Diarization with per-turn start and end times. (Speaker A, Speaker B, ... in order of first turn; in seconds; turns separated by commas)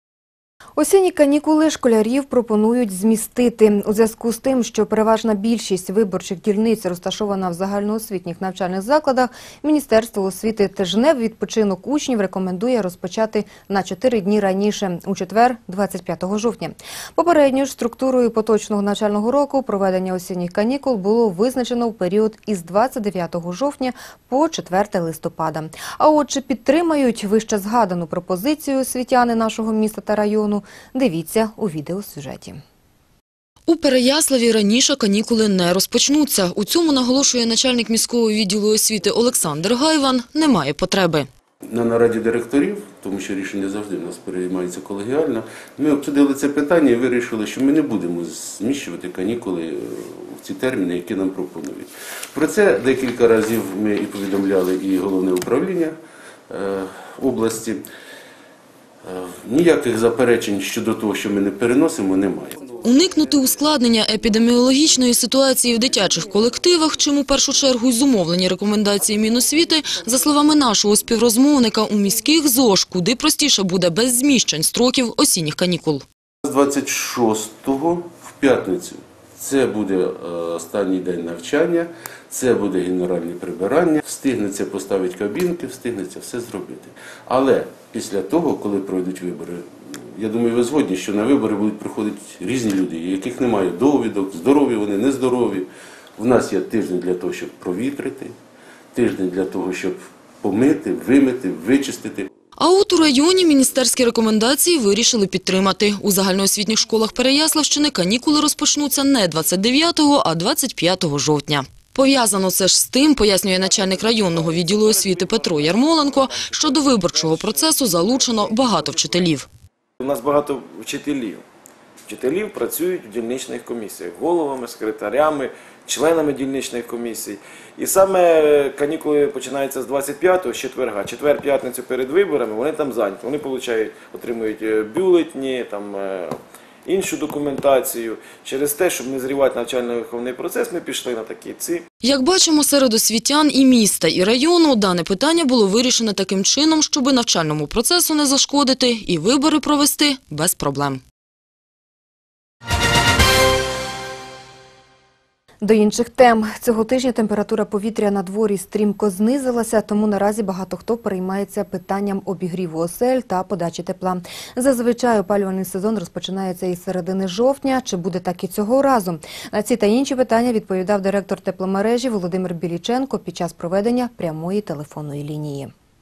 Speaker A: 0.8-32.6, Speaker B: 33.7-41.3, Speaker C: 41.6-56.0, Speaker C: 56.5-57.9, Speaker C: 59.0-62.7, Speaker B: 62.8-76.0, Speaker C: 76.4-98.3, Speaker C: 98.9-102.3, Speaker B: 102.6-119.5, Speaker D: 120.0-121.4, Speaker D: 122.1-141.8, Speaker B: 142.0-151.0, Speaker A: 155.6-175.7